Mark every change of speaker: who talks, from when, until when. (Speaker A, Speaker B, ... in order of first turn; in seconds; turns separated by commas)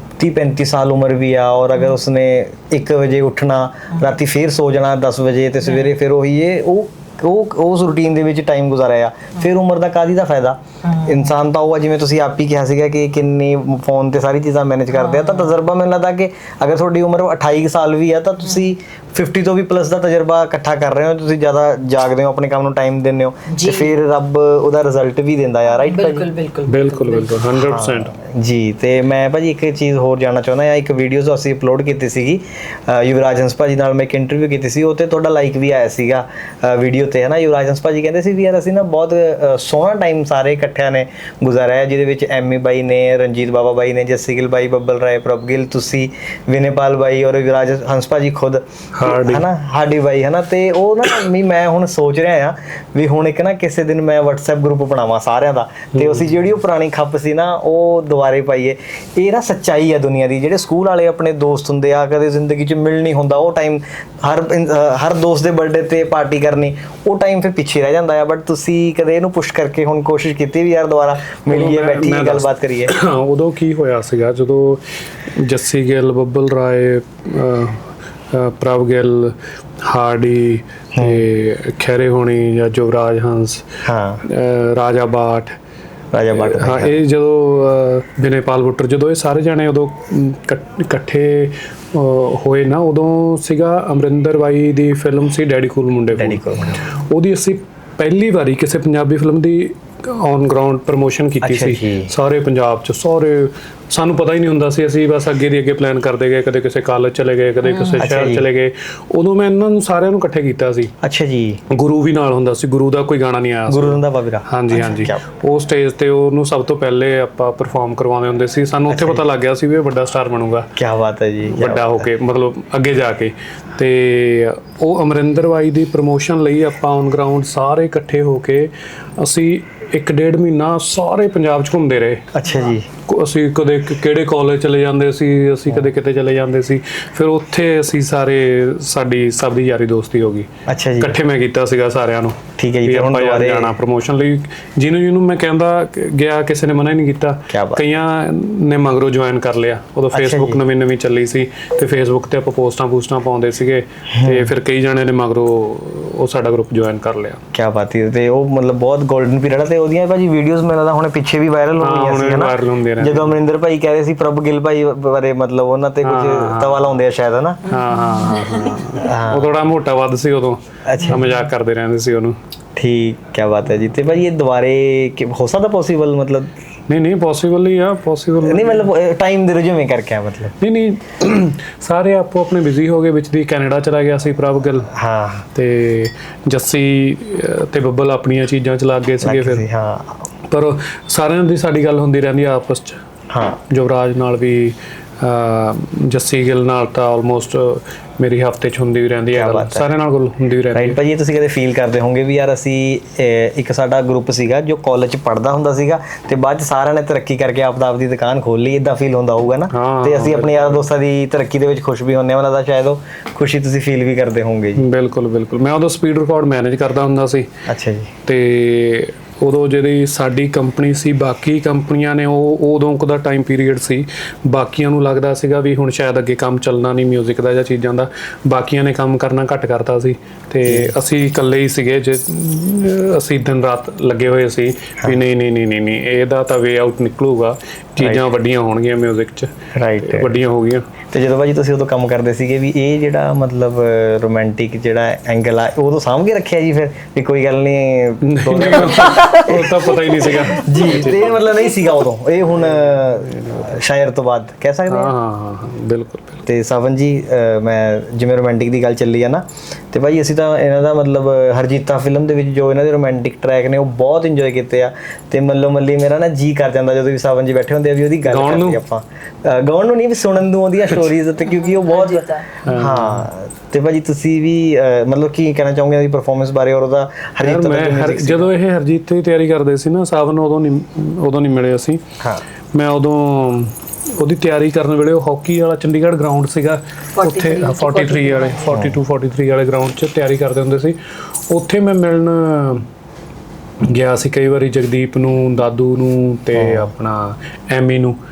Speaker A: 0.2-26.3, Speaker B: 5.7-5.9, Speaker B: 10.8-11.2, Speaker B: 14.9-15.6, Speaker B: 23.5-23.9, Speaker B: 25.8-27.4, Speaker C: 26.7-28.1, Speaker A: 27.6-72.9, Speaker C: 49.0-49.5, Speaker C: 56.0-56.2, Speaker C: 71.5-85.6, Speaker A: 81.0-81.2, Speaker A: 83.8-84.2, Speaker A: 86.1-86.9, Speaker C: 86.3-110.9, Speaker A: 96.2-96.9, Speaker A: 101.4-102.1, Speaker B: 107.6-108.1, Speaker A: 108.0-108.5, Speaker A: 111.0-111.6, Speaker C: 111.7-120.7, Speaker A: 113.7-115.2, Speaker A: 118.9-119.2, Speaker A: 120.8-122.1, Speaker C: 121.5-132.3, Speaker A: 132.3-132.9, Speaker C: 133.1-157.4, Speaker A: 140.7-141.2, Speaker A: 142.6-143.7, Speaker A: 147.5-147.8, Speaker A: 150.1-150.6, Speaker A: 154.1-154.5, Speaker A: 157.5-167.6, Speaker C: 161.8-163.3, Speaker C: 166.0-166.8, Speaker C: 167.7-172.4, Speaker B: 167.8-168.8, Speaker A: 169.0-169.5, Speaker A: 170.9-171.3, Speaker A: 172.8-176.5, Speaker C: 176.9-178.9, Speaker A: 178.4-180.5, Speaker C: 180.6-184.9, Speaker A: 184.9-185.5, Speaker C: 185.5-189.7, Speaker A: 189.2-190.3, Speaker C: 190.5-193.0, Speaker A: 193.3-193.6, Speaker C: 193.7-201.0, Speaker A: 199.3-199.9, Speaker A: 200.7-214.8, Speaker C: 209.7-210.8, Speaker C: 214.8-217.6, Speaker A: 217.7-218.1, Speaker C: 218.2-240.8, Speaker A: 230.7-230.9, Speaker A: 238.0-238.3, Speaker A: 239.8-240.4, Speaker A: 241.1-249.7, Speaker C: 248.2-251.4, Speaker B: 248.8-250.8, Speaker A: 250.5-255.1, Speaker C: 253.2-253.7, Speaker C: 254.9-256.4, Speaker A: 256.5-278.5, Speaker C: 268.2-268.8, Speaker B: 271.5-272.5, Speaker C: 272.7-273.3, Speaker C: 277.4-282.1, Speaker C: 282.7-291.0, Speaker B: 287.1-288.7, Speaker A: 288.7-289.0, Speaker C: 291.5-292.9, Speaker C: 293.8-298.2, Speaker A: 296.5-296.9